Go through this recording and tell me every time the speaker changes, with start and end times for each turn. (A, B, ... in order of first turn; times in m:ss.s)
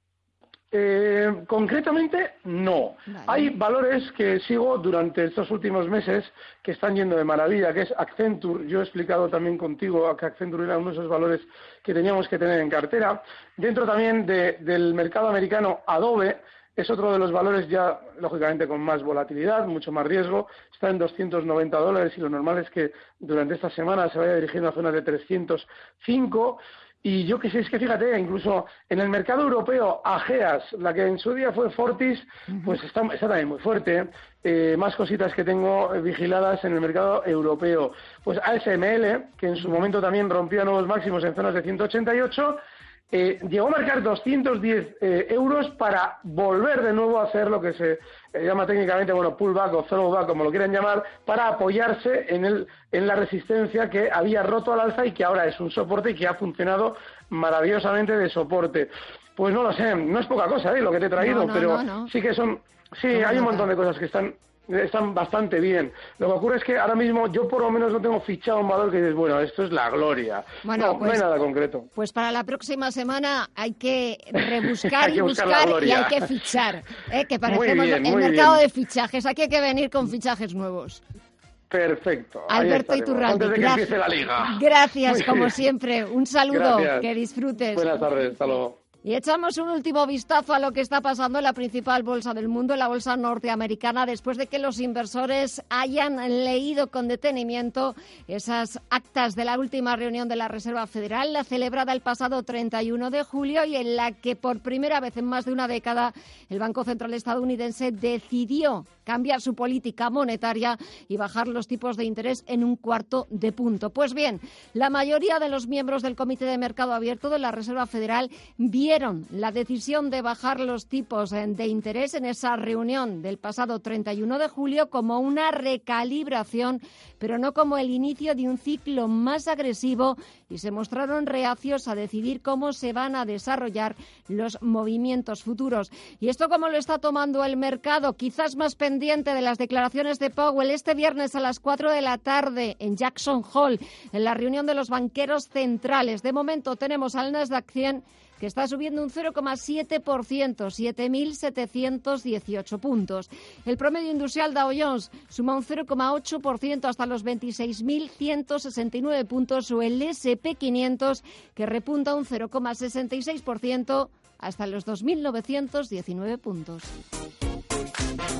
0:00.7-0:42.6 A
0:03.1-0:03.5 B
0:43.1-1:11.8 A
1:01.2-1:02.1 B
1:03.1-1:03.7 B
1:10.6-1:11.2 B
1:11.9-1:21.0 B
1:14.7-1:16.2 A
1:17.4-1:18.6 A
1:21.7-1:25.5 A
1:22.5-1:28.0 B
1:26.5-1:27.1 A
1:27.7-1:28.8 A
1:29.0-2:46.9 B